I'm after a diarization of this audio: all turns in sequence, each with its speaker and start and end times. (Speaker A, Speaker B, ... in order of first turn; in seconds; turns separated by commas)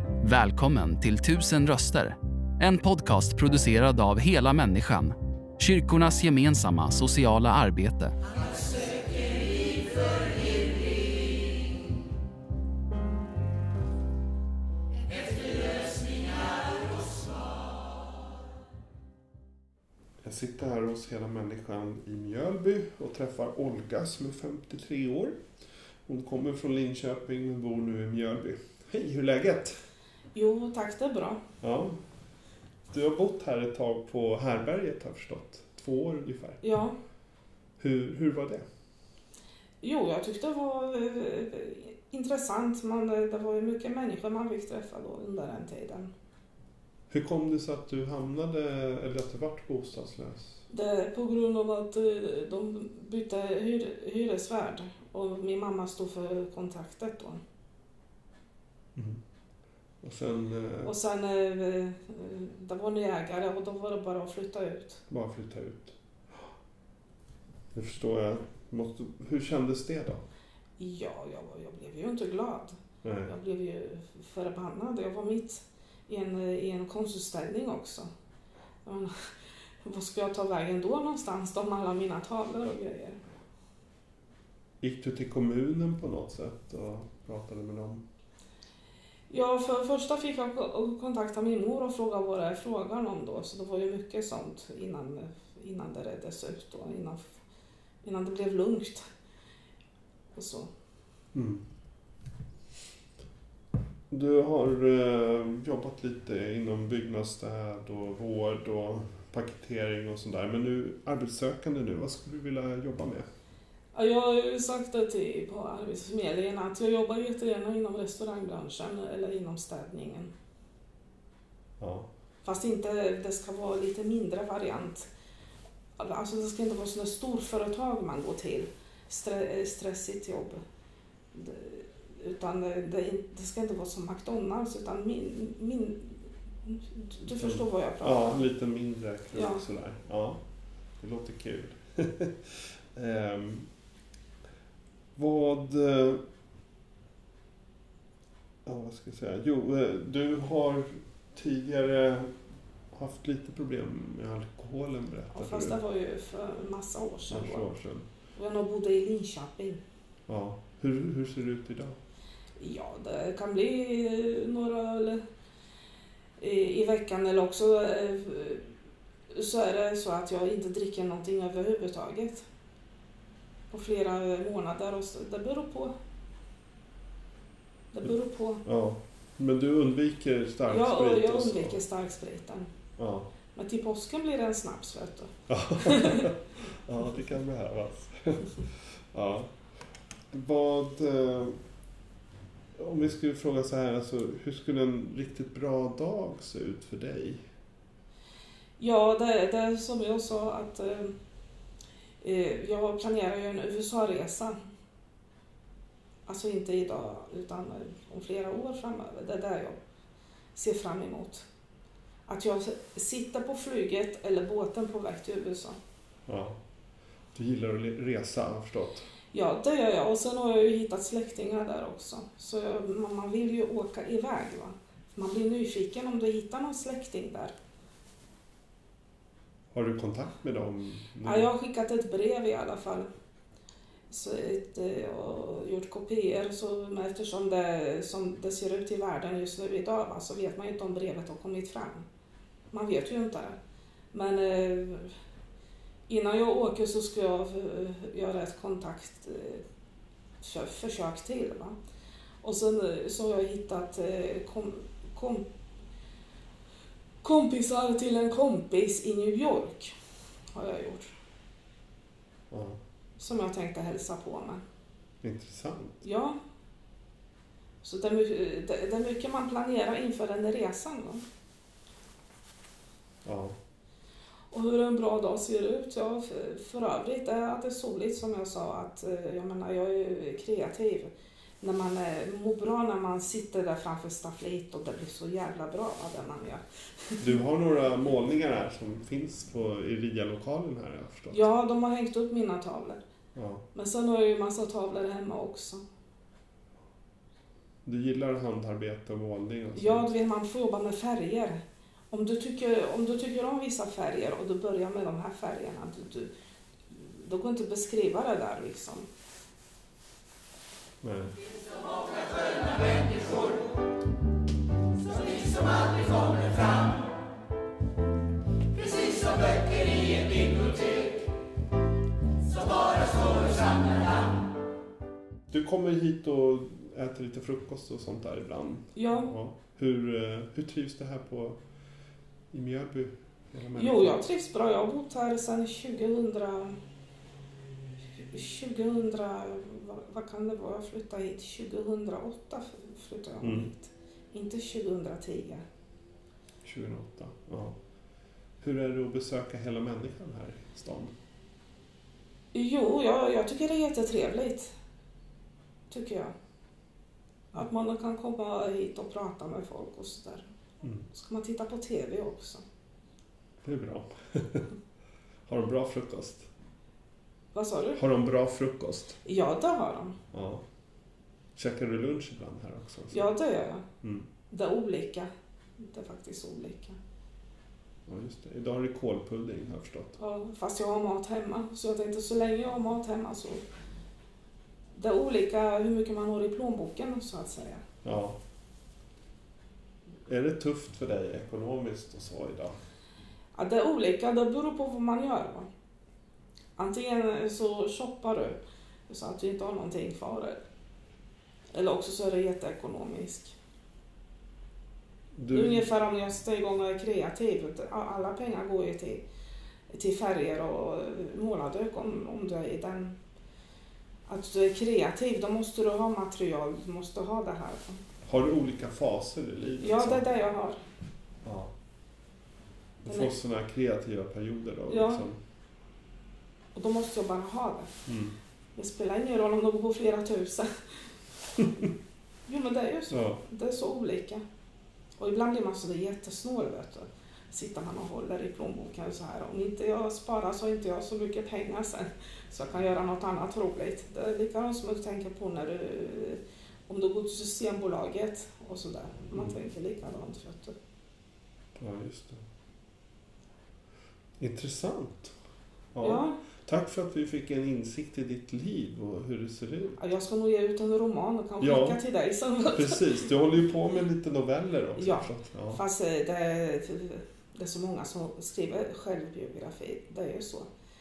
Speaker A: 0.2-8.2, Speaker B: 20.2-25.4, Speaker B: 26.1-29.8, Speaker C: 30.3-31.4, Speaker B: 31.6-32.0, Speaker B: 32.9-36.6, Speaker C: 36.6-37.0, Speaker B: 37.8-38.6, Speaker C: 39.8-46.1, Speaker B: 47.1-50.6, Speaker C: 50.7-57.4, Speaker B: 59.0-59.2, Speaker B: 60.0-61.0, Speaker C: 60.9-65.0, Speaker B: 65.1-66.0, Speaker B: 67.7-70.2, Speaker C: 70.8-78.1, Speaker B: 73.0-73.3, Speaker C: 78.8-83.2, Speaker B: 84.8-88.0, Speaker C: 89.3-97.3, Speaker C: 98.0-99.0, Speaker C: 100.3-100.7, Speaker B: 101.3-101.6, Speaker B: 104.1-113.3, Speaker C: 113.9-120.3, Speaker B: 121.8-122.1, Speaker C: 122.4-125.1, Speaker C: 126.0-130.6, Speaker C: 131.3-138.4, Speaker B: 137.3-140.4, Speaker C: 139.3-139.7, Speaker B: 141.0-143.7, Speaker B: 145.2-146.2, Speaker B: 148.7-152.3, Speaker B: 152.9-155.8, Speaker C: 155.3-157.7, Speaker B: 157.3-158.1, Speaker C: 158.3-159.8, Speaker B: 160.3-162.0, Speaker C: 162.6-165.2, Speaker C: 166.4-168.7, Speaker C: 169.3-172.4, Speaker C: 173.7-175.9, Speaker C: 177.9-178.6, Speaker B: 178.7-181.8, Speaker C: 180.7-182.7, Speaker B: 183.0-183.3, Speaker C: 183.5-186.3, Speaker B: 185.5-189.5, Speaker B: 190.3-191.6, Speaker B: 192.8-197.4, Speaker C: 198.8-201.2, Speaker C: 202.2-204.6, Speaker C: 206.3-209.8, Speaker C: 210.6-211.5, Speaker C: 212.3-215.8, Speaker B: 216.3-216.6, Speaker B: 217.3-219.1, Speaker C: 219.3-227.5, Speaker B: 229.7-231.5, Speaker C: 231.2-233.1, Speaker C: 234.1-242.1, Speaker C: 242.7-243.6, Speaker C: 244.1-245.1, Speaker C: 246.1-249.6, Speaker C: 250.4-251.8, Speaker C: 252.4-255.5, Speaker C: 257.2-259.9, Speaker C: 260.5-261.1, Speaker B: 262.5-262.8, Speaker C: 263.2-264.6, Speaker B: 265.2-266.0, Speaker C: 266.0-266.4, Speaker C: 267.8-271.2, Speaker B: 273.2-273.6, Speaker C: 274.5-287.3, Speaker B: 287.2-291.5, Speaker C: 291.3-293.0, Speaker B: 293.4-293.6, Speaker C: 293.7-295.8, Speaker B: 297.9-300.1, Speaker C: 299.8-306.3, Speaker C: 306.9-309.1, Speaker B: 311.0-311.4, Speaker B: 325.5-331.6, Speaker C: 328.9-329.3, Speaker B: 332.5-334.2, Speaker C: 333.8-336.8, Speaker C: 338.2-345.6, Speaker B: 343.4-343.7, Speaker B: 346.6-347.8, Speaker B: 348.6-351.1, Speaker C: 352.5-354.7, Speaker C: 355.9-356.3, Speaker C: 357.5-360.5, Speaker C: 361.1-362.6, Speaker B: 363.6-364.7, Speaker B: 365.5-366.5, Speaker C: 367.5-368.0, Speaker B: 368.0-369.2, Speaker C: 369.2-370.2, Speaker B: 370.3-370.6, Speaker B: 371.6-373.3, Speaker C: 373.1-373.9, Speaker B: 374.0-374.3, Speaker C: 374.5-377.0, Speaker B: 378.1-380.2, Speaker C: 380.2-383.6, Speaker C: 384.9-387.9, Speaker B: 388.0-388.4, Speaker B: 390.3-392.8, Speaker C: 393.5-395.7, Speaker C: 396.8-400.6, Speaker C: 401.7-403.6, Speaker B: 405.4-405.9, Speaker C: 405.5-409.2, Speaker C: 409.9-413.2, Speaker C: 414.3-418.0, Speaker B: 418.2-420.3, Speaker C: 419.8-420.8, Speaker B: 421.4-421.7, Speaker B: 423.0-425.4, Speaker C: 423.1-423.4, Speaker C: 424.9-425.3, Speaker C: 426.7-427.9, Speaker B: 428.1-428.4, Speaker C: 428.8-430.7, Speaker C: 432.5-434.4, Speaker B: 433.1-433.4, Speaker C: 435.2-450.8, Speaker B: 451.8-452.4, Speaker B: 454.4-455.4, Speaker B: 455.9-460.0, Speaker C: 456.0-456.4, Speaker C: 460.0-463.2, Speaker B: 461.6-462.0, Speaker B: 462.7-465.8, Speaker C: 465.0-470.7